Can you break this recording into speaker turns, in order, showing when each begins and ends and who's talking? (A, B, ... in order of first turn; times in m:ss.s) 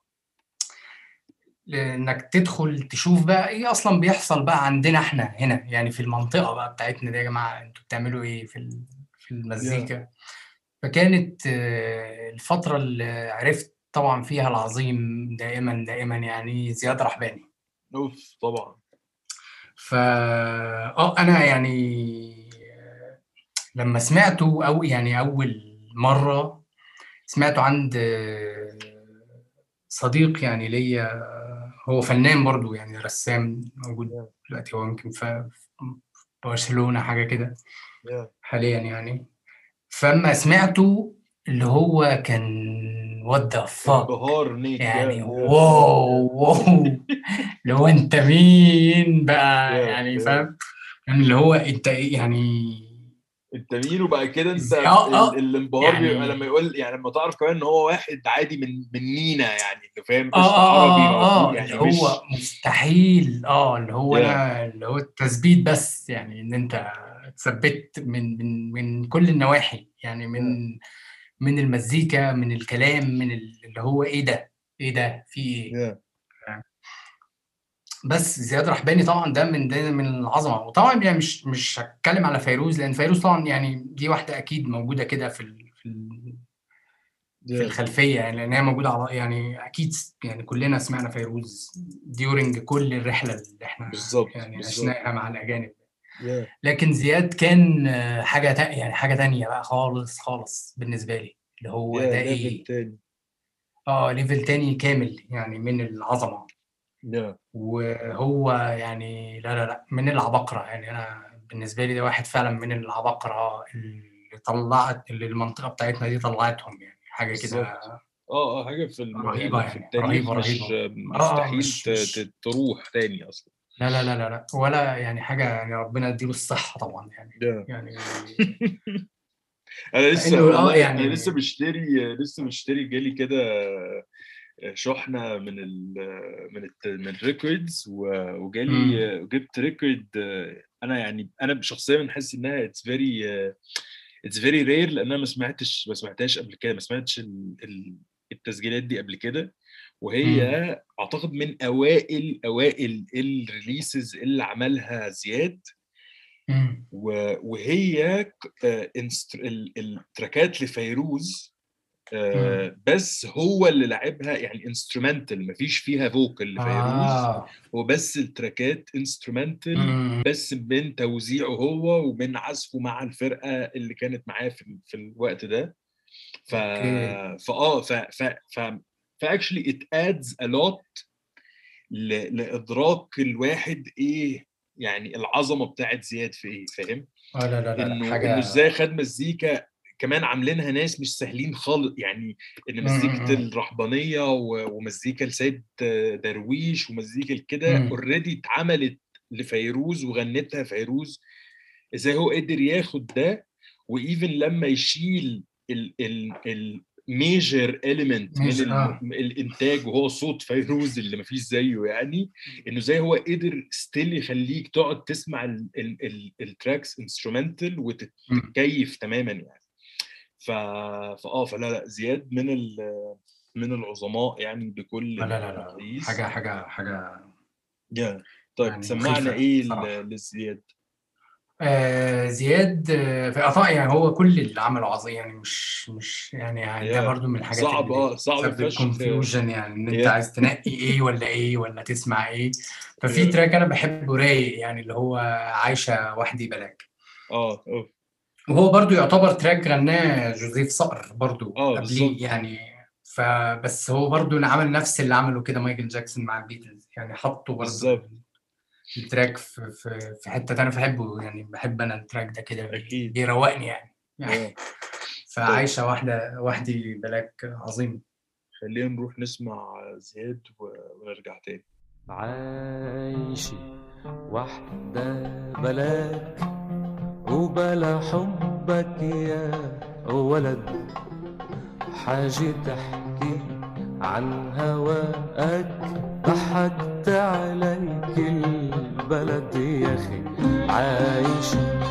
0:01.7-0:10.1 A
0:09.6-0:09.9 B
0:10.8-0:17.4 A
0:17.9-0:18.8 B
0:19.8-0:23.1 A
0:23.8-0:26.6 A
0:27.3-0:29.1 A
0:29.9-0:37.5 A
0:38.0-0:38.3 B
0:38.4-0:39.2 A
0:39.9-0:44.1 A
0:43.8-0:46.2 B
0:44.8-0:47.0 A
0:46.8-0:47.1 B
0:47.6-0:50.5 A
0:49.7-0:50.5 B
0:51.1-0:53.0 A
0:53.6-1:02.2 B
0:54.6-0:56.4 A
1:00.3-1:10.7 A
1:04.1-1:04.4 B
1:11.4-1:15.7 A
1:15.7-1:16.0 B
1:18.1-1:26.4 A
1:27.4-1:27.8 B
1:27.5-1:35.8 A
1:33.9-1:34.9 B
1:36.2-1:36.5 B
1:36.6-1:42.6 A
1:41.9-1:43.0 B
1:43.9-1:46.5 A
1:47.1-1:47.4 B
1:47.5-1:58.0 A
1:57.3-1:57.7 B
1:58.3-2:03.5 B
1:59.1-2:02.2 A
2:03.8-2:08.5 A
2:07.4-2:07.6 B
2:08.4-2:09.0 B
2:09.9-2:14.0 B
2:10.2-2:11.3 A
2:14.7-2:23.5 B
2:18.7-2:19.0 A
2:24.3-2:29.5 B
2:30.0-2:35.6 B
2:30.2-2:30.5 A
2:36.5-2:36.8 A
2:36.9-2:41.5 B
2:42.1-2:55.7 B
2:42.3-2:42.6 A
2:46.6-2:47.5 A
2:49.8-2:50.2 A
2:56.5-3:01.0 B
2:56.5-2:57.2 A
3:01.9-3:07.0 B
3:07.3-3:08.6 A
3:07.8-3:21.2 B
3:12.8-3:13.4 A
3:17.7-3:17.9 A
3:22.0-3:39.6 B
3:28.3-3:29.0 A
3:40.4-3:46.2 B
3:45.2-3:47.3 A
3:47.9-3:50.6 B
3:48.6-3:49.9 A
3:51.6-4:06.8 A
3:56.8-3:59.2 B
4:03.1-4:03.3 B
4:07.3-4:07.9 B
4:08.5-4:18.2 A
4:11.6-4:12.2 B
4:17.6-4:18.0 B
4:18.9-4:24.5 A
4:22.7-4:23.2 B
4:24.3-4:24.5 B
4:25.3-4:28.0 A
4:28.6-4:31.6 B
4:32.1-4:33.6 C
4:34.3-4:36.4 C
4:37.3-4:39.5 C
4:40.1-4:40.8 C
4:41.9-4:43.4 C
4:44.0-4:51.6 C